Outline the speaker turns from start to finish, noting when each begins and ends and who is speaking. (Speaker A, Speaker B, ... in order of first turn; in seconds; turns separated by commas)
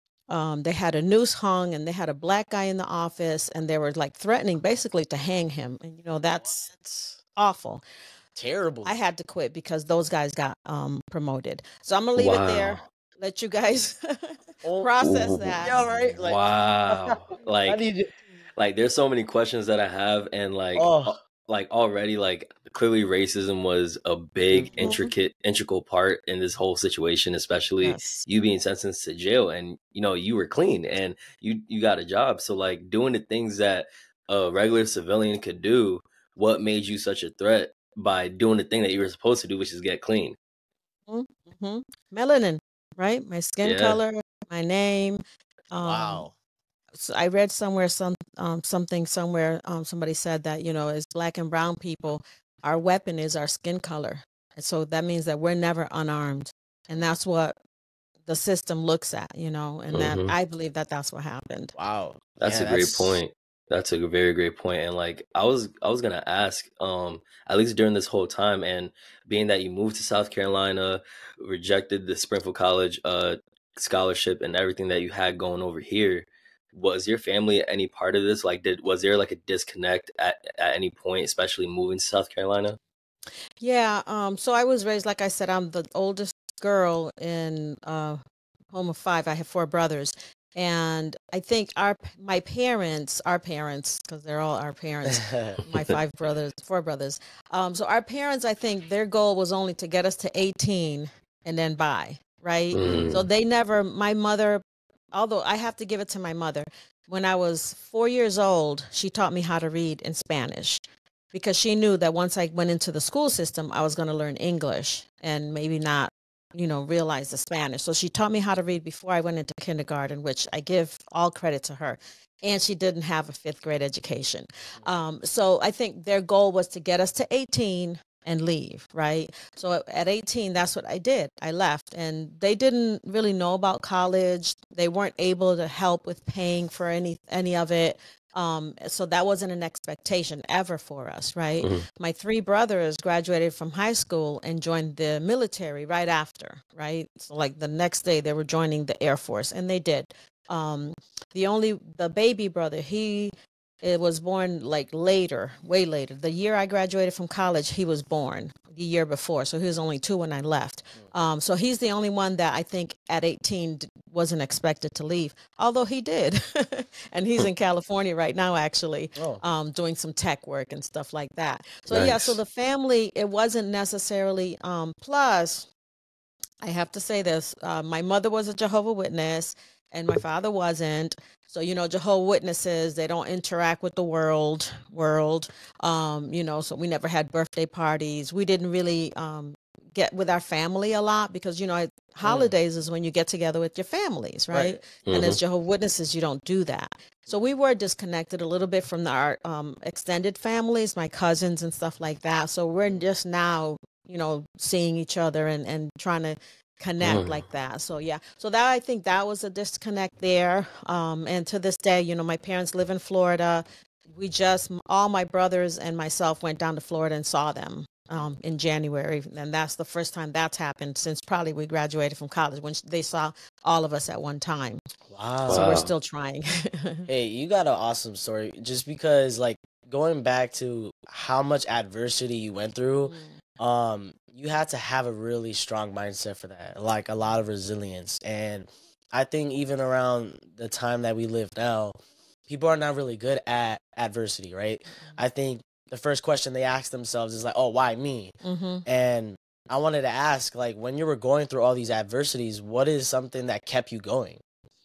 Speaker A: 0.3-6.7, Speaker B: 6.7-6.9, Speaker A: 7.3-7.8, Speaker B: 8.4-8.9, Speaker A: 8.8-15.8, Speaker C: 12.2-12.8, Speaker B: 14.6-14.9, Speaker C: 15.0-17.8, Speaker B: 15.6-18.1, Speaker C: 18.6-40.4, Speaker B: 20.8-21.1, Speaker B: 24.5-25.1, Speaker A: 24.8-25.1, Speaker A: 27.8-28.2, Speaker A: 41.1-46.3, Speaker C: 43.6-44.0, Speaker B: 45.8-46.3, Speaker A: 47.0-57.6, Speaker A: 58.3-61.7, Speaker C: 59.9-60.3, Speaker B: 61.8-63.2, Speaker C: 62.4-82.8, Speaker A: 83.6-88.2, Speaker A: 88.7-110.8, Speaker B: 95.1-95.6, Speaker C: 102.7-103.2, Speaker B: 102.8-103.2, Speaker A: 111.3-175.7, Speaker B: 169.2-169.4, Speaker C: 171.9-172.4, Speaker A: 176.6-224.8, Speaker B: 192.2-192.5, Speaker B: 194.5-194.8, Speaker C: 195.1-195.4, Speaker C: 207.0-207.4, Speaker B: 225.1-225.8, Speaker C: 225.5-225.9, Speaker A: 225.5-227.1, Speaker B: 227.1-248.3, Speaker A: 233.0-233.4, Speaker A: 248.4-248.8, Speaker B: 248.9-254.4